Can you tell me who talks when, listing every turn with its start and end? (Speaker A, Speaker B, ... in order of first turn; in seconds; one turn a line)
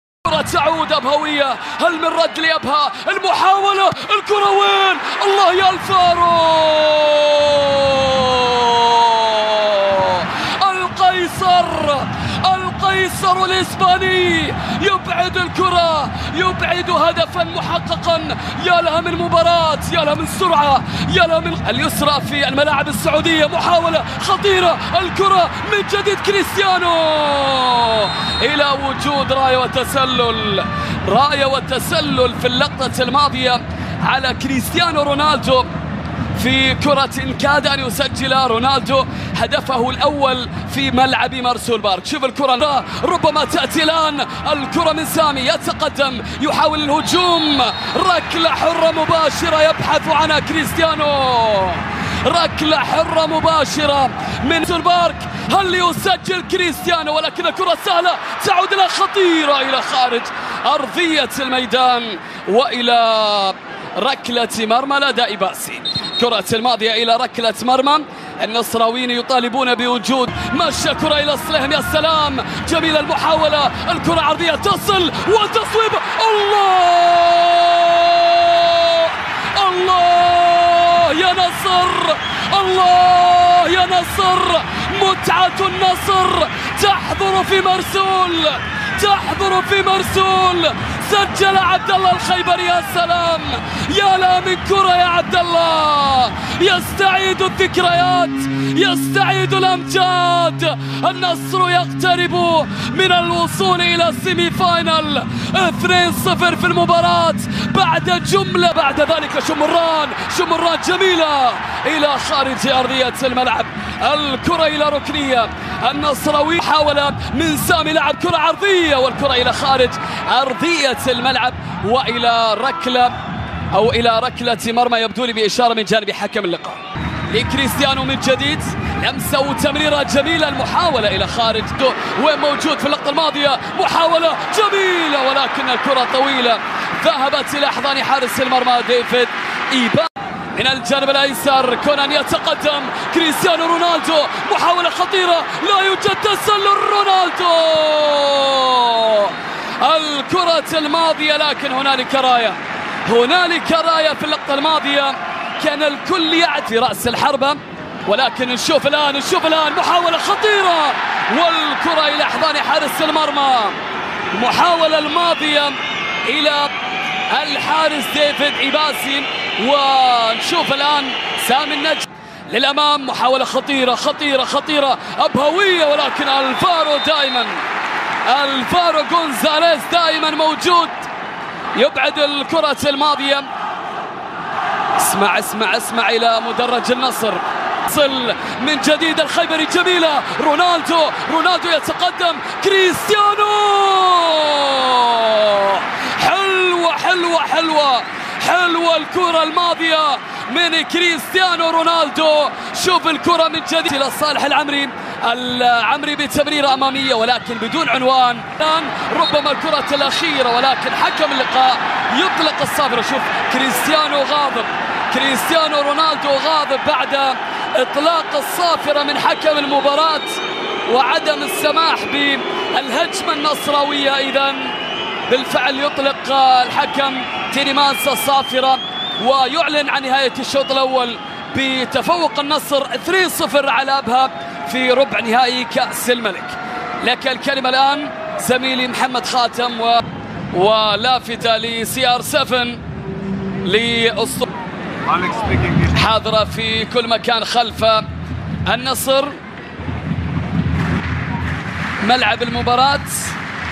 Speaker A: 0.2-35.7
Speaker A: 36.3-123.1
Speaker A: 123.7-163.8
Speaker A: 164.3-166.7
Speaker A: 167.3-177.6
Speaker A: 178.3-181.1
Speaker A: 181.8-183.5
Speaker A: 185.0-224.8
Speaker A: 225.3-242.8
Speaker A: 243.6-244.5
Speaker A: 245.6-248.1
Speaker A: 248.7-249.4
Speaker A: 252.0-253.4